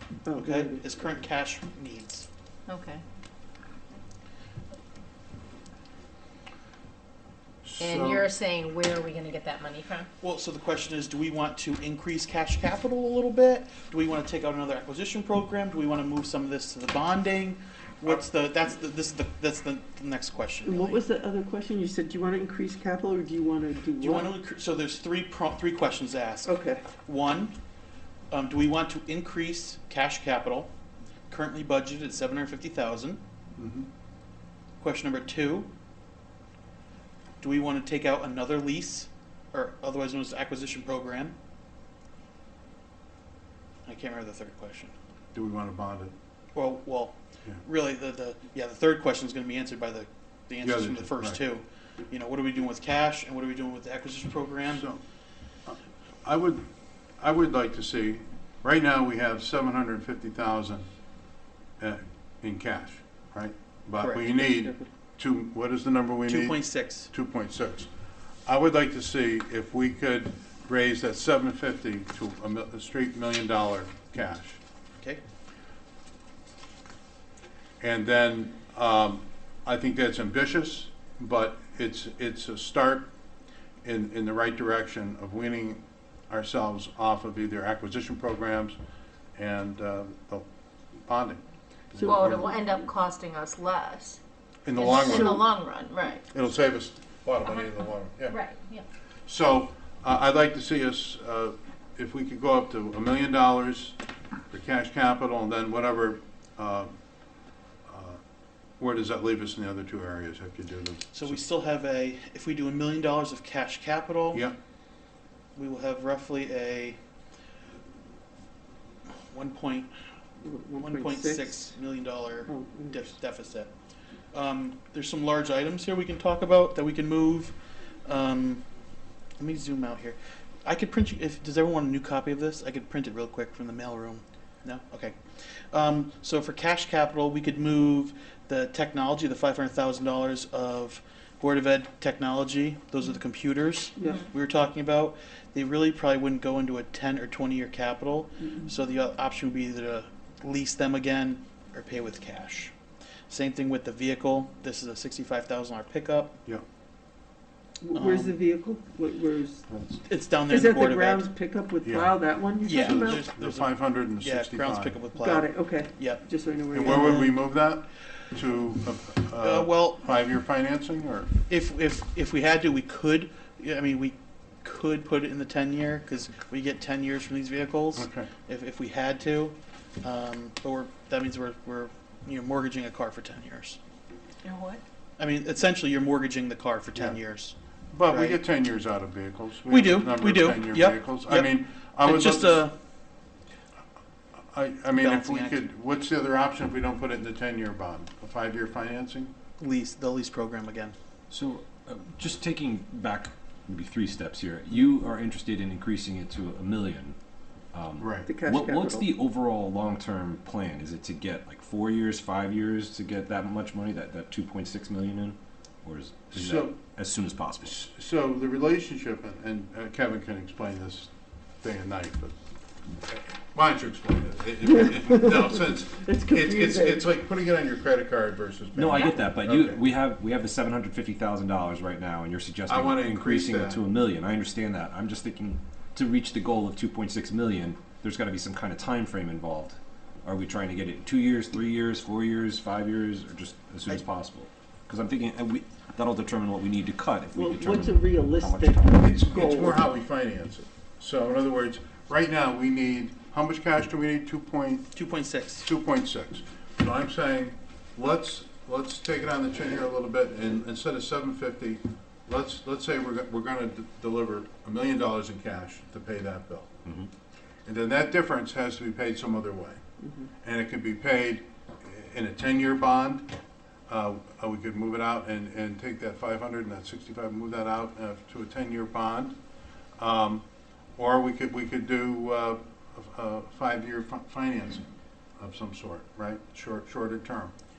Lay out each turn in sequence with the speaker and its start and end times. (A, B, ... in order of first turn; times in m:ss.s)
0:00.2-0:00.9 A
0:00.4-0:02.3 B
0:02.7-0:03.0 C
0:07.6-0:08.3 D
0:07.8-0:10.1 C
0:10.2-0:21.0 B
0:20.6-0:24.3 A
0:24.0-0:27.5 B
0:26.4-0:26.8 A
0:28.3-0:30.7 B
0:31.3-0:33.2 B
0:33.6-0:33.9 D
0:34.8-0:35.7 B
0:37.4-0:41.4 B
0:43.8-0:44.9 B
0:45.3-0:46.2 D
0:46.6-0:54.9 B
0:50.6-0:51.4 D
0:54.7-0:55.0 D
0:55.6-0:56.7 D
0:57.2-1:00.9 D
1:01.8-1:07.9 D
1:04.0-1:04.3 B
1:04.4-1:04.9 A
1:06.3-1:07.1 B
1:08.4-1:14.6 D
1:17.8-1:23.1 D
1:23.8-1:28.8 D
1:29.4-1:30.4 D
1:31.1-1:31.4 D
1:31.9-1:32.6 D
1:32.0-1:32.4 A
1:32.0-1:34.2 C
1:34.6-1:35.5 D
1:34.8-1:36.2 C
1:36.3-1:38.4 D
1:37.5-1:38.8 C
1:39.3-1:44.0 D
1:44.5-1:47.0 D
1:47.9-1:48.2 D
1:48.8-1:51.4 D
1:51.1-1:54.5 B
1:54.3-1:54.6 D
1:55.6-1:57.0 B
1:59.3-1:59.9 B
2:00.4-2:01.7 A
2:00.8-2:03.7 B
2:02.5-2:03.0 A
2:04.3-2:08.6 B
2:09.4-2:32.7 B
2:24.0-2:24.2 A
2:33.3-2:36.4 B
2:37.8-2:39.7 A
2:37.9-2:38.3 B
2:39.7-2:40.0 D
2:40.0-2:41.3 B
2:40.5-2:43.2 A
2:41.8-2:42.2 D
2:42.6-2:47.4 B
2:42.7-2:45.0 D
2:45.2-2:47.3 A
2:46.8-2:51.3 D
2:49.4-2:50.0 B
2:51.5-3:03.8 B
2:57.9-2:58.3 D
3:04.4-3:04.8 C
3:05.2-3:07.6 B
3:07.0-3:07.2 D
3:07.9-3:12.7 D
3:08.1-3:08.4 B
3:09.7-3:12.7 B
3:14.5-3:19.3 D
3:14.9-3:15.6 B
3:19.6-3:21.0 B
3:21.3-3:27.2 E
3:27.7-3:37.8 E
3:28.0-3:28.3 D
3:28.2-3:29.1 A
3:36.3-3:36.8 D
3:37.6-3:42.4 D
3:43.1-3:49.8 D
3:45.1-3:45.5 A
3:46.0-3:47.1 A
3:48.7-4:08.8 E
3:52.7-3:53.8 D
4:07.3-4:09.8 A
4:08.9-4:15.0 D
4:14.9-4:15.7 B
4:15.6-4:26.8 D
4:27.6-4:29.8 D
4:30.4-4:33.3 D
4:33.9-4:39.4 D
4:40.0-4:40.4 D
4:41.0-4:44.8 D
4:45.4-4:47.5 D